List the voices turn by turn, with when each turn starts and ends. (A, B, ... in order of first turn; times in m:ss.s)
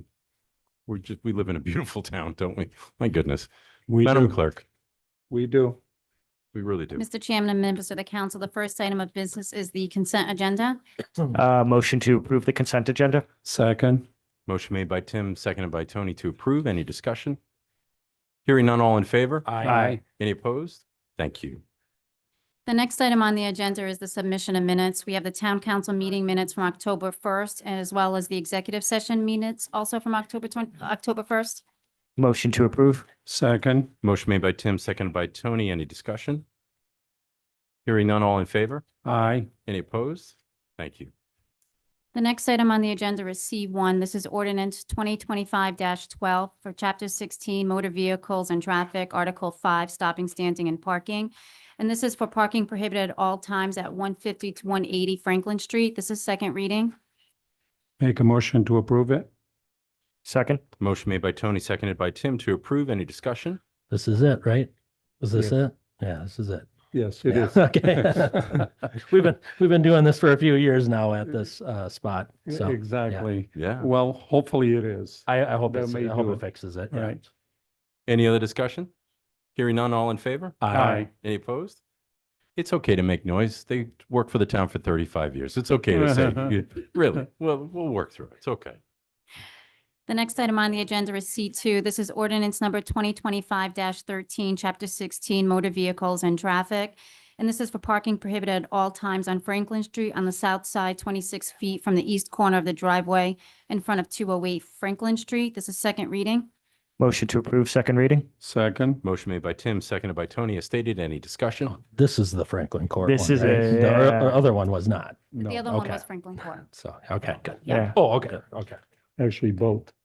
0:00.9-0:03.5 A
0:03.9-0:04.4 B
0:04.0-0:04.6 A
0:05.3-0:05.8 B
0:06.5-0:07.0 A
0:07.0-0:10.8 C
0:11.3-0:13.2 D
0:13.4-0:14.0 B
0:14.5-0:17.4 A
0:18.4-0:21.6 A
0:19.5-0:19.8 E
0:19.6-0:20.0 B
0:22.6-0:31.6 C
0:32.2-0:33.1 D
0:33.2-0:33.9 B
0:34.0-0:36.4 A
0:37.8-0:38.8 A
0:39.0-0:39.5 B
0:39.6-0:41.1 A
0:42.1-0:56.9 C
0:58.0-0:59.3 B
1:00.2-1:00.6 D
1:00.8-1:03.6 A
1:03.9-1:06.7 E
1:06.9-1:08.7 B
1:07.2-1:13.2 E
1:12.5-1:17.2 B
1:13.5-1:13.9 A
1:15.3-1:17.2 E
1:18.1-1:18.9 A
1:19.6-1:20.7 A
1:20.6-1:21.0 E
1:20.7-1:21.1 B
1:21.2-1:21.8 A
1:22.6-1:28.8 A
1:25.9-1:26.5 B
1:30.1-1:46.5 C
1:47.0-1:48.3 D
1:48.4-1:49.0 B
1:49.0-1:51.8 A
1:51.7-1:56.0 E
1:53.0-1:54.4 D
1:55.4-1:56.6 C
1:56.6-1:58.8 E
1:57.7-1:57.9 D
1:59.2-1:59.9 B